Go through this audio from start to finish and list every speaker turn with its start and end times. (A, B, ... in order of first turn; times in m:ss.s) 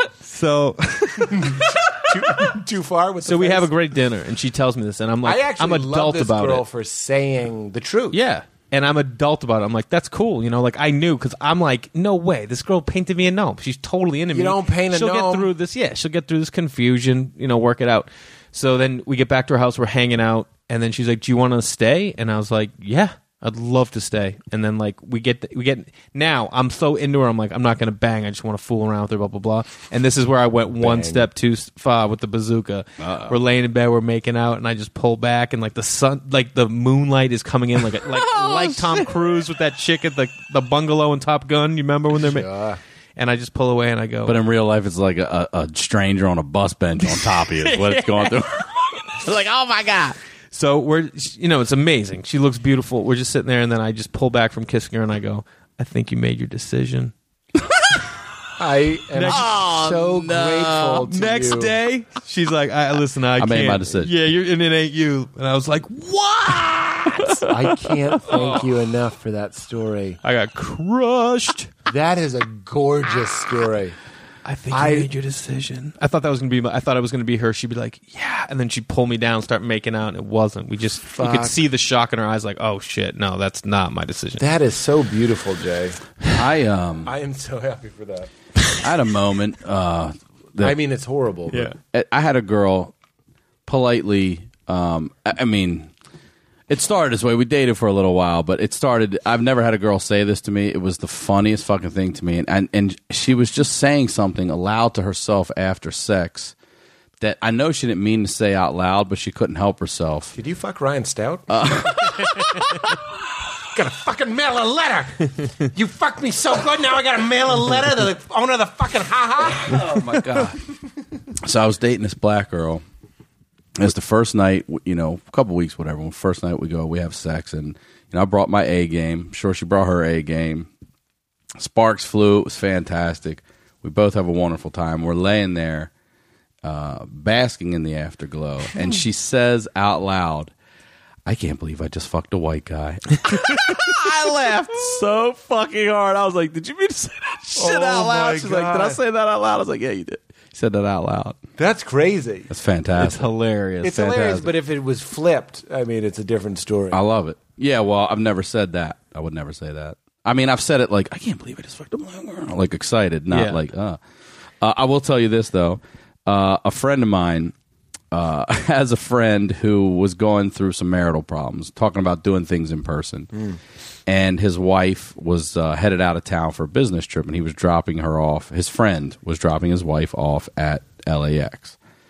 0:00.2-0:01.8 A
0:01.4-0:03.7 B
0:03.2-0:06.6 A
0:05.2-0:08.2 B
0:08.1-0:42.5 A
0:14.3-0:15.5 B
0:30.8-0:31.2 B
0:33.0-0:33.3 C
0:38.3-0:38.8 C
0:42.2-0:42.8 B
0:43.2-0:44.4 A
0:44.2-0:48.7 C
0:47.0-0:48.4 A
0:49.2-0:50.1 C
0:50.5-0:57.1 A
0:57.7-0:58.0 C
0:58.6-1:01.7 B
0:59.1-0:59.5 A
0:59.2-1:01.0 C
1:01.0-1:07.4 A
1:03.4-1:04.1 C
1:07.4-1:10.2 B
1:08.2-1:08.7 A
1:10.2-1:11.7 A
1:11.9-1:14.0 B
1:14.4-1:24.4 A
1:14.7-1:15.1 B
1:21.1-1:21.6 B
1:24.4-1:26.0 B
1:26.3-1:27.1 C
1:27.0-1:28.3 B
1:28.8-1:30.8 C
1:30.6-1:31.7 B
1:31.8-1:32.9 C
1:33.6-1:35.9 C
1:36.7-1:46.5 C
1:47.2-1:50.3 C
1:50.3-1:52.3 B
1:51.5-1:52.3 C
1:53.7-2:00.0 B
1:59.6-2:00.6 C
2:01.4-2:02.8 C
2:03.8-2:10.7 C
2:11.6-2:15.9 C
2:16.6-2:20.5 C
2:21.2-2:31.4 C
2:23.3-2:23.8 A
2:27.6-2:29.0 B
2:31.6-2:32.5 B
2:32.5-2:33.3 C
2:33.0-2:34.5 A
2:33.8-2:37.0 B
2:36.9-2:44.0 C
2:43.3-2:43.6 A
2:44.6-2:47.5 C
2:48.1-2:53.3 C
2:54.1-3:01.8 C